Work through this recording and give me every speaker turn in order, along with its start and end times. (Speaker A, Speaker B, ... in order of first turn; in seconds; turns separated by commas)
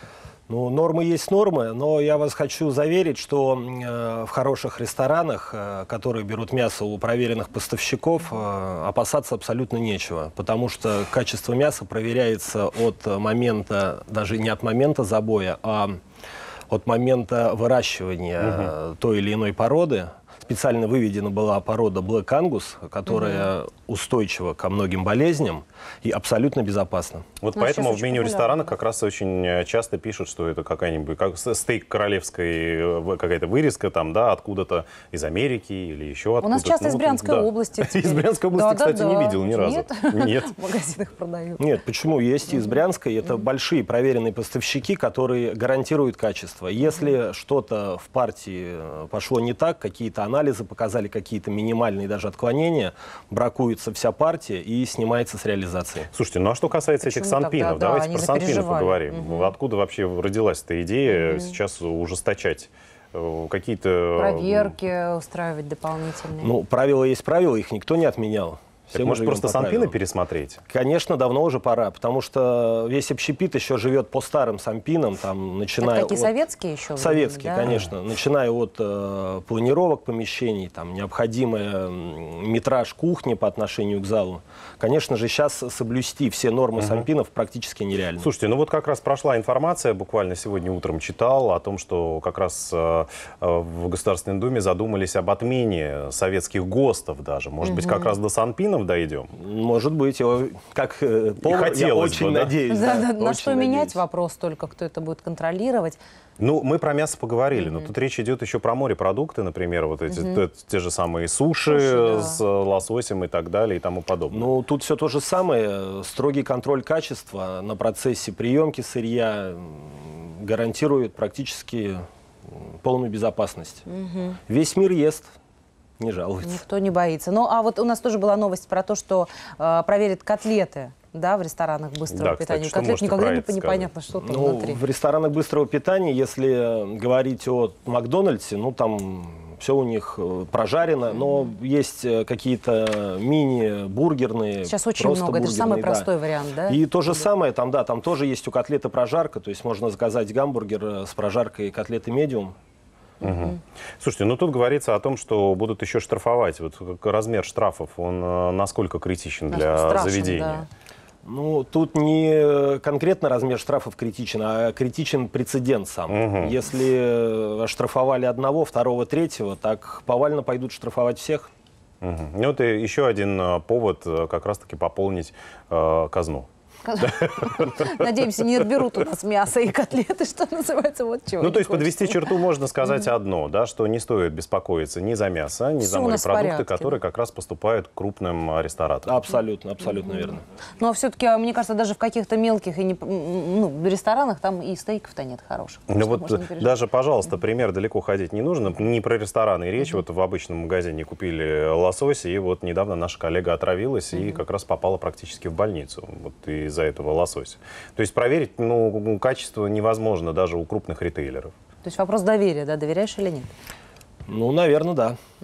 Speaker A: 0.5-16.0, Speaker A: 16.7-27.2, Speaker B: 18.4-18.7, Speaker C: 23.1-23.5, Speaker B: 27.4-40.5, Speaker C: 27.6-28.7, Speaker C: 36.4-41.6, Speaker A: 41.6-56.1, Speaker B: 56.1-64.8, Speaker C: 57.0-59.5, Speaker C: 61.1-61.5, Speaker C: 64.2-66.5, Speaker A: 66.4-70.0, Speaker B: 68.9-70.6, Speaker A: 70.7-76.3, Speaker C: 75.8-77.8, Speaker A: 77.0-88.3, Speaker B: 86.8-87.1, Speaker B: 88.2-99.3, Speaker C: 97.6-98.2, Speaker A: 99.3-104.0, Speaker B: 101.4-102.5, Speaker C: 102.7-106.0, Speaker B: 106.4-114.5, Speaker C: 107.5-107.9, Speaker C: 110.1-110.4, Speaker C: 111.7-112.4, Speaker A: 114.3-123.8, Speaker C: 123.9-124.4, Speaker A: 124.5-125.3, Speaker A: 126.0-126.6, Speaker C: 126.4-134.8, Speaker B: 132.1-133.9, Speaker A: 134.2-146.1, Speaker C: 144.6-146.8, Speaker A: 146.7-152.6, Speaker B: 153.2-160.7, Speaker C: 153.2-153.5, Speaker C: 159.5-160.7, Speaker A: 161.2-171.5, Speaker B: 166.1-166.5, Speaker B: 172.0-176.5, Speaker C: 176.8-182.3, Speaker B: 177.0-178.8, Speaker B: 181.4-189.1, Speaker C: 185.8-187.0, Speaker A: 189.1-190.4, Speaker C: 190.0-196.8, Speaker B: 195.9-211.5, Speaker C: 211.8-213.5, Speaker A: 214.3-215.2